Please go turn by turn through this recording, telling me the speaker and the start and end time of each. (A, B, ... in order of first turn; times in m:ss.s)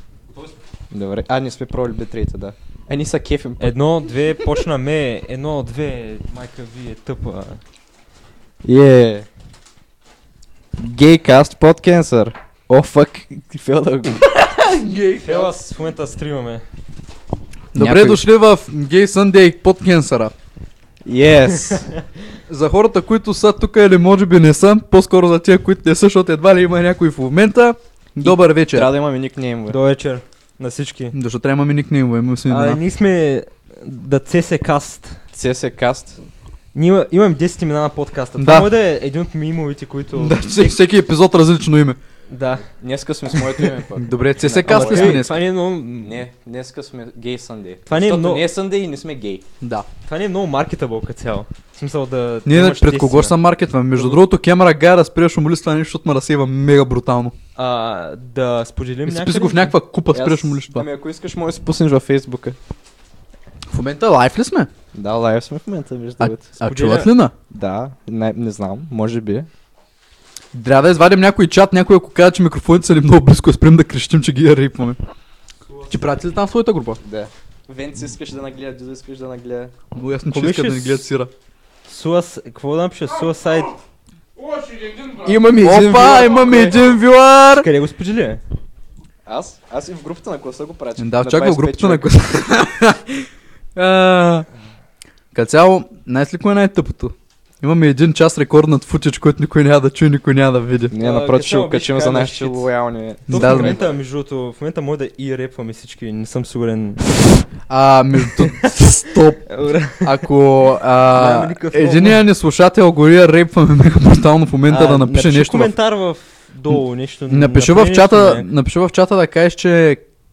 0:00.3-0:00.6 A
0:00.9-0:03.7 B
0:03.6-0:07.6 A
0:08.6-0:09.3 B
0:10.8-0:14.2 B
0:14.3-0:15.5 C
0:15.2-0:16.6 A
0:17.7-0:20.3 C
0:17.8-0:18.2 B
0:21.0-0:21.9 B
0:21.7-0:22.0 A
0:22.5-0:28.9 C
0:28.2-0:29.8 B
0:29.7-0:31.2 A
0:31.1-0:32.8 C
0:32.5-0:35.2 A
0:35.3-0:36.2 B
0:36.7-0:40.4 A
0:38.4-0:38.7 C
0:40.2-0:42.0 C
0:42.3-0:42.7 A
0:42.8-0:45.3 B
0:44.0-0:45.4 C
0:44.6-0:46.2 A
0:46.0-0:49.4 B
0:47.9-0:48.5 A
0:49.6-0:49.9 C
0:50.0-0:53.4 A
0:52.5-0:57.3 C
0:57.6-0:59.7 A
0:59.1-1:00.9 C
1:00.1-1:02.6 B
1:03.7-1:04.7 C
1:04.9-1:06.5 B
1:06.2-1:07.3 C
1:06.6-1:07.1 A
1:07.5-1:09.5 B
1:10.5-1:15.0 C
1:15.7-1:16.1 A
1:15.9-1:17.0 C
1:17.0-1:19.7 B
1:19.9-1:21.3 C
1:20.3-1:21.1 A
1:21.9-1:23.7 A
1:23.2-1:23.7 D
1:24.4-1:25.5 D
1:25.2-1:26.9 B
1:25.3-1:27.7 C
1:26.0-1:26.5 D
1:27.5-1:28.4 A
1:29.3-1:32.3 B
1:31.0-1:34.5 C
1:35.3-1:40.9 C
1:40.9-1:44.0 B
1:41.0-1:42.7 A
1:43.3-1:47.1 A
1:43.3-1:43.8 C
1:47.7-1:55.7 C
1:48.6-1:50.3 A
1:51.1-1:52.3 A
1:54.7-1:58.5 A
1:57.3-2:00.0 C